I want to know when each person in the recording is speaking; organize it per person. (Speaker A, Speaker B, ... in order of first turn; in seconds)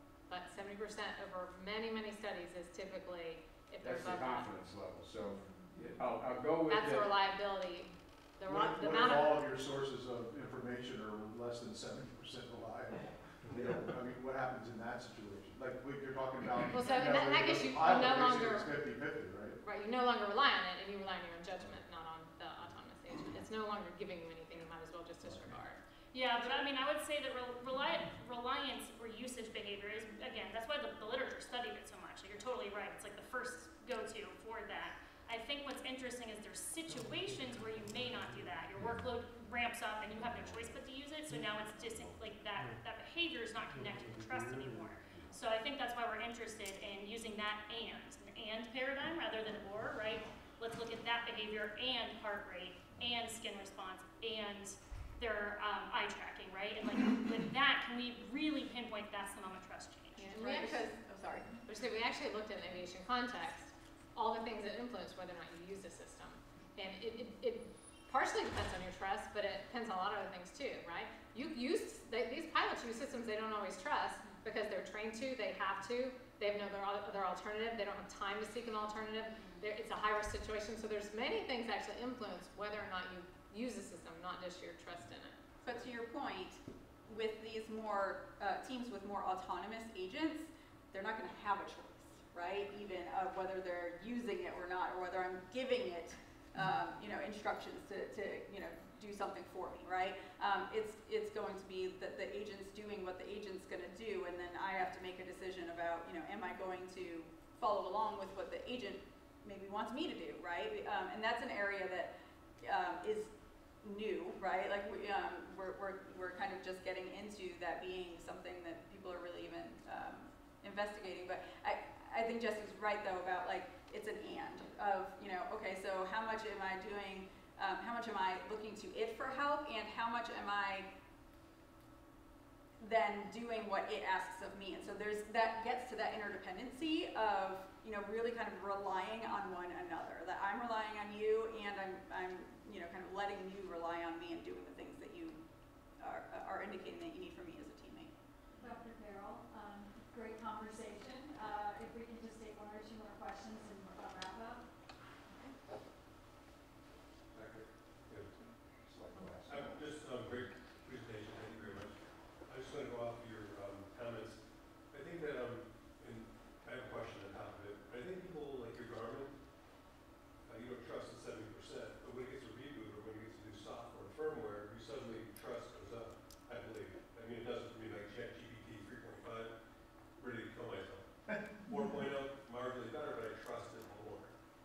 Speaker A: 0.3-4.5, 6.7-9.4, 16.7-18.8, 19.6-25.8, 60.2-60.9, 61.7-85.4
Speaker B: 3.8-7.1
Speaker C: 8.5-19.6
Speaker D: 26.1-60.3
Speaker E: 60.3-61.5, 85.6-112.1, 112.6-113.3, 113.8-130.9, 132.8-145.4, 146.0-148.1
Speaker F: 148.6-154.6
Speaker G: 157.3-158.3, 158.9-161.9, 162.5-164.4, 164.9-169.3, 170.5-179.5, 180.2-181.1, 181.7-184.3